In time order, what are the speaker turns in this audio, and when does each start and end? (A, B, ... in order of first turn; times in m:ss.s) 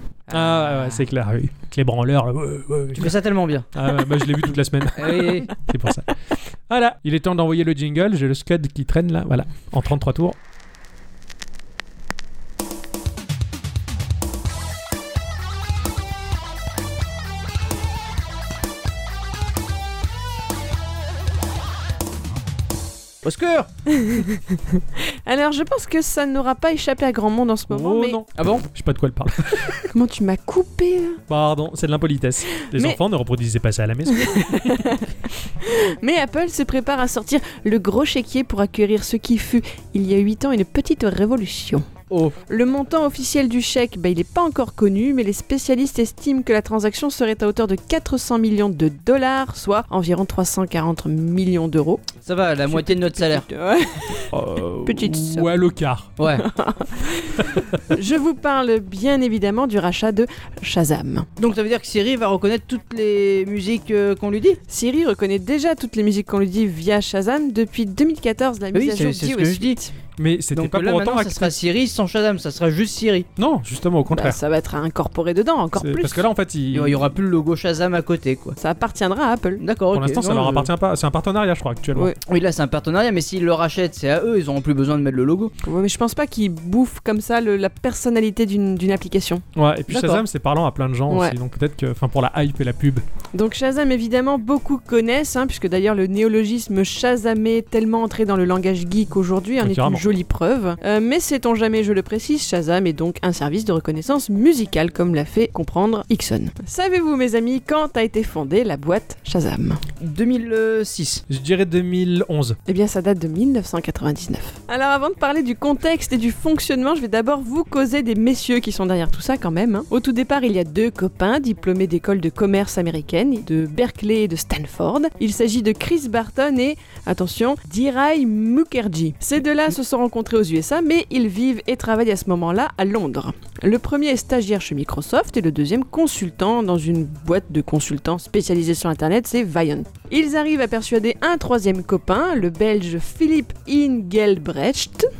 0:00.3-0:01.0 A
0:00.3-0:03.1 B
0:02.9-0:03.7 A
0:03.7-0:06.1 B
0:05.0-0:05.5 A
0:06.7-0:10.4 B
0:23.2-0:23.7 A
0:23.9-0:28.2 C
0:27.7-0:29.9 B
0:28.4-0:28.6 A
0:29.9-0:31.2 C
0:31.3-0:34.8 B
0:32.5-0:33.0 C
0:34.1-0:41.8 C
0:42.1-0:42.4 A
0:42.5-0:52.1 C
0:52.2-0:53.4 A
0:52.7-0:55.5 C
0:54.3-0:56.2 B
0:56.2-0:56.4 A
0:56.4-1:01.3 C
0:57.4-0:57.8 B
1:01.4-1:04.6 A
1:04.7-1:09.9 C
1:08.7-1:09.8 A
1:10.2-1:11.5 B
1:10.5-1:13.3 A
1:13.4-1:14.4 B
1:14.1-1:16.2 C
1:15.8-1:17.1 B
1:16.7-1:18.6 A
1:18.6-1:19.6 C
1:19.6-1:20.7 A
1:19.9-1:22.1 B
1:22.2-1:25.5 A
1:25.6-1:29.4 C
1:29.5-1:33.0 B
1:29.9-1:30.2 A
1:31.1-1:31.4 C
1:33.3-1:49.8 C
1:39.6-1:40.1 B
1:50.0-1:51.2 A
1:51.3-1:52.6 B
1:52.6-2:25.1 C